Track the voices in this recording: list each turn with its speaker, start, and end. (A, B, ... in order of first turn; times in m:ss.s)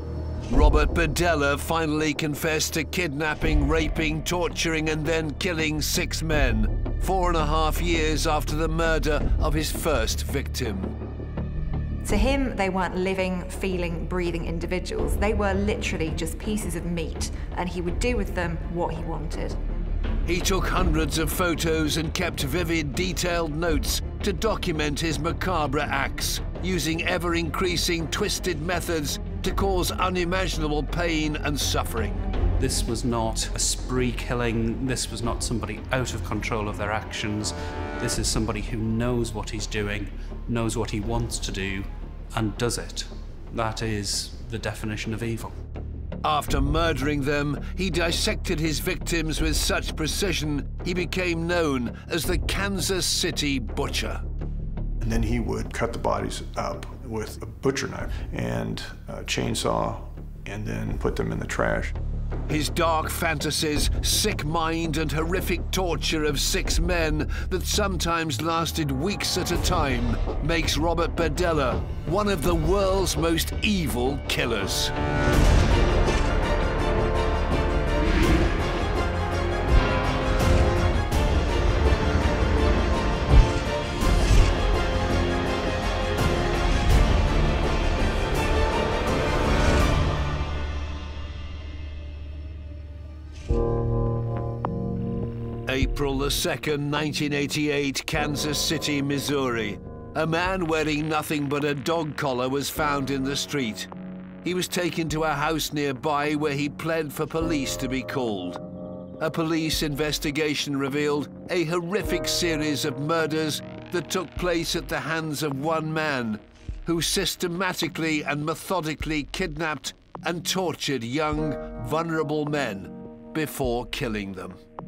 0:00.5-0:10.9 A
0:12.0-0:19.6 B
0:20.2-0:32.2 A
0:32.6-0:45.5 C
0:46.2-0:54.2 A
0:55.0-1:01.9 D
1:02.5-1:14.9 A
1:35.7-1:43.9 A
1:44.4-1:48.6 A
1:49.2-2:04.6 A